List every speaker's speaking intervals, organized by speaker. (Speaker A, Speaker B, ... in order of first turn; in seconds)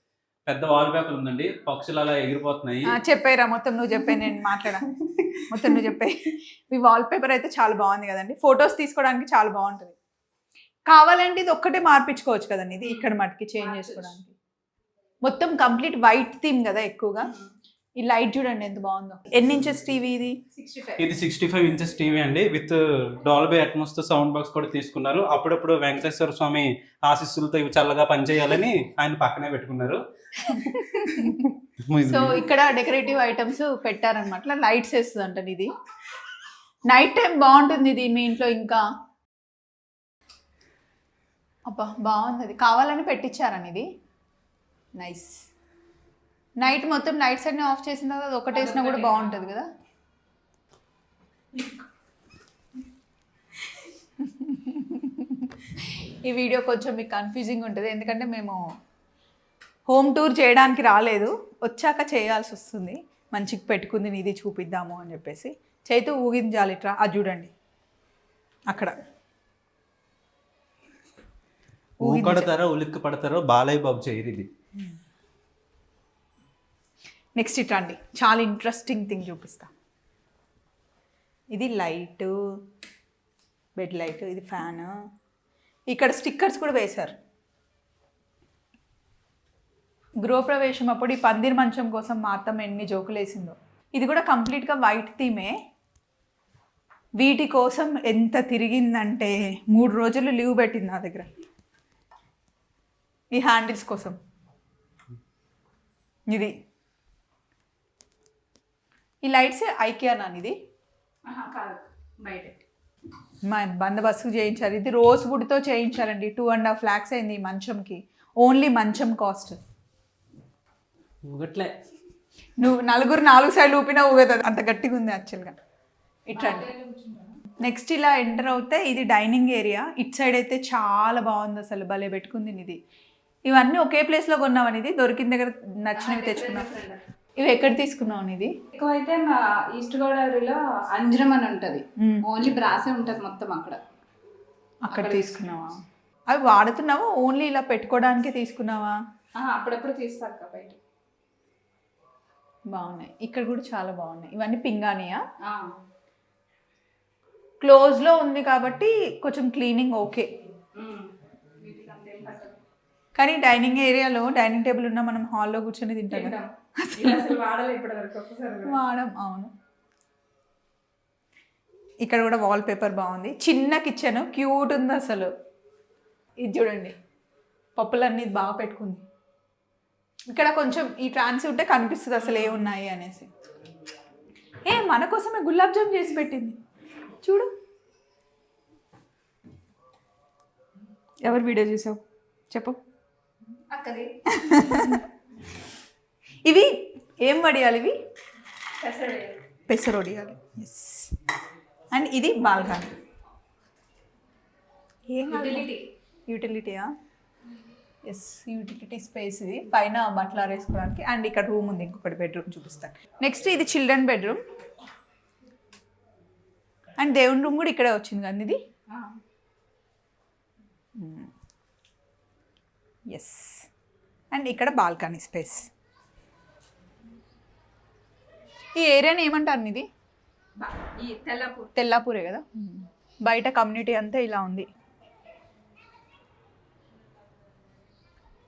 Speaker A: 0.5-2.9, 21.0-30.0, 31.9-32.4, 72.0-74.5, 121.2-121.7
Speaker B: 2.9-4.9, 5.5-9.9, 10.9-14.3, 15.2-17.3, 18.0-20.4, 30.5-31.5, 32.0-35.7, 36.9-38.8, 41.7-43.9, 45.0-45.4, 46.6-49.7, 54.2-58.6, 59.9-67.5, 72.0-72.5, 77.4-79.7, 81.5-82.3, 83.8-84.9, 85.9-87.1, 90.2-95.5, 97.2-101.3, 103.3-104.2, 109.2-110.5, 113.4-119.6, 122.6-125.6, 126.3-126.7, 127.6-132.8, 133.5-136.7, 137.4-138.6, 142.0-142.3, 144.8-149.0, 152.7-155.2, 157.6-160.3, 163.2-167.4, 168.6-169.5, 172.0-175.3, 176.4-176.9, 177.8-179.0, 180.3-183.3, 184.7-186.6, 187.2-187.5, 191.2-192.0, 192.5-192.8, 194.3-195.0, 196.4-197.9, 199.7-201.1, 201.9-202.9, 205.1-205.7, 206.3-206.9, 208.1-214.4, 217.0-218.6, 221.0-221.3, 223.1-223.7, 224.3-225.7, 228.8-229.8, 231.8-234.7
Speaker C: 13.6-14.2, 20.5-21.1, 48.5-49.5, 111.3-112.6, 126.3-127.4, 136.0-137.0, 138.7-143.8, 144.9-145.4, 149.4-150.8, 155.4-155.8, 160.8-162.6, 166.1-168.8, 193.7-194.2, 198.8-199.4, 205.3-205.9, 218.9-219.2, 230.6-231.7